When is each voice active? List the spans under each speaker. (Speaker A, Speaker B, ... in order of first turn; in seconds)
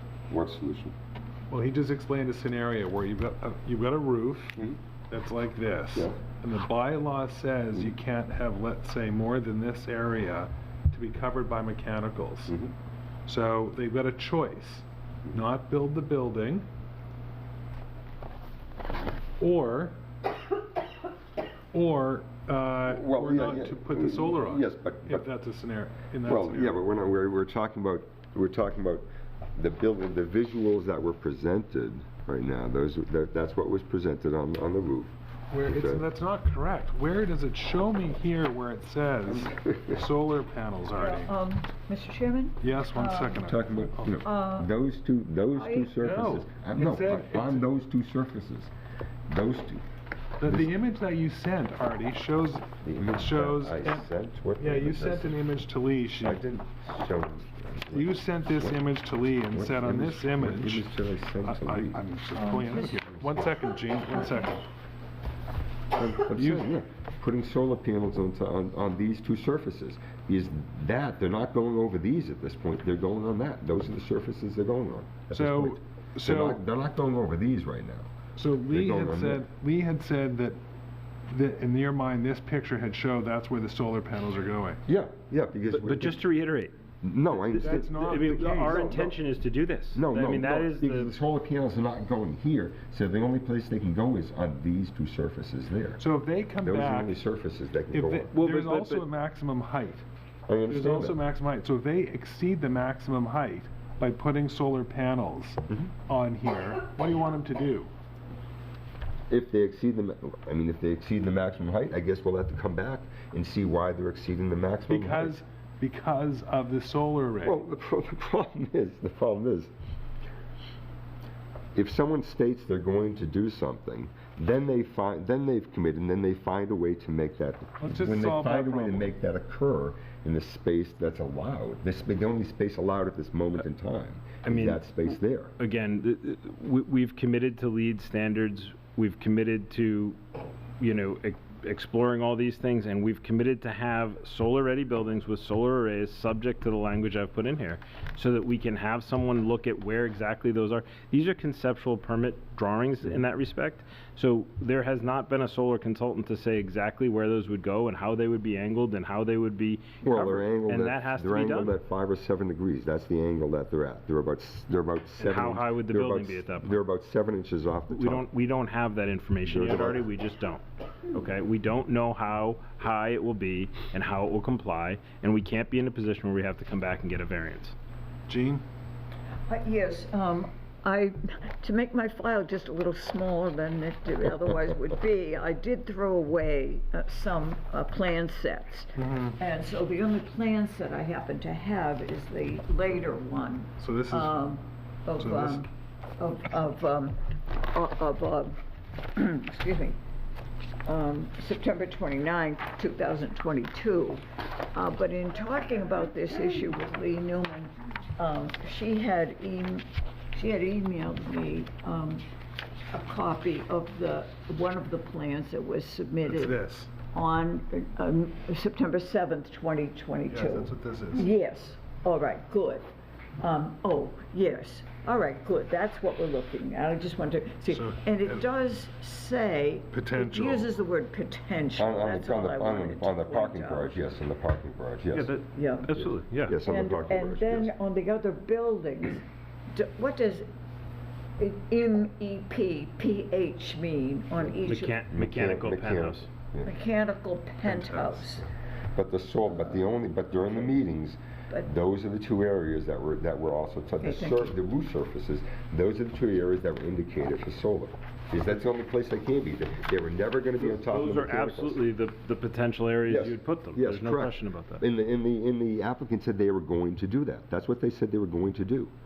Speaker A: 0.3-0.9, 6.0-6.2, 22.9-25.3, 26.2-35.1, 35.6-36.0, 39.5-39.9, 43.5-48.7, 49.3-49.8, 50.4-50.7, 52.8-55.4, 56.2-58.8, 59.5-62.0, 66.0-78.1, 78.7-79.4, 84.9-86.2, 87.0-89.2, 89.9-96.0, 96.6-98.3, 100.5-101.2, 109.3-115.3, 117.4-119.7, 121.7-135.5, 160.0-168.3, 169.5-170.1, 231.8-235.3, 235.9-237.7, 245.1-246.7, 248.9-261.8, 263.1-268.9
Speaker B: 1.5-4.6, 5.1-12.5, 13.3-16.7, 19.4-19.9, 21.7-26.8, 35.5-41.3, 42.6-44.1, 46.0-47.6, 50.4-54.0, 54.6-56.4, 57.9-60.9, 61.5-64.6, 66.2-66.6, 75.3-76.6, 78.4-80.6, 81.3-84.8, 87.6-88.9, 96.0-97.2, 97.9-100.0, 100.7-107.9, 114.9-117.6, 127.8-129.1, 178.3-178.6, 189.0-189.4, 193.8-194.4, 195.2-195.6, 216.2-216.9, 220.3-221.3, 227.7-228.4, 229.9-230.7, 247.7-248.2
Speaker C: 41.0-43.5, 44.2-44.7, 45.5-45.9, 62.4-62.9, 64.1-64.5, 179.5-195.6, 196.2-198.6, 199.1-199.9, 200.8-204.2, 204.7-212.2, 212.9-216.6, 217.1-222.8, 223.4-234.1, 235.5-236.0, 236.6-240.4, 241.4-245.0, 246.6-248.4, 254.0-254.6
Speaker D: 85.7-86.7, 87.5-91.1, 98.3-99.0, 134.4-134.8, 135.6-140.2, 140.8-161.8, 165.2-166.8, 167.9-177.8, 235.1-236.6, 244.7-246.3, 260.6-264.8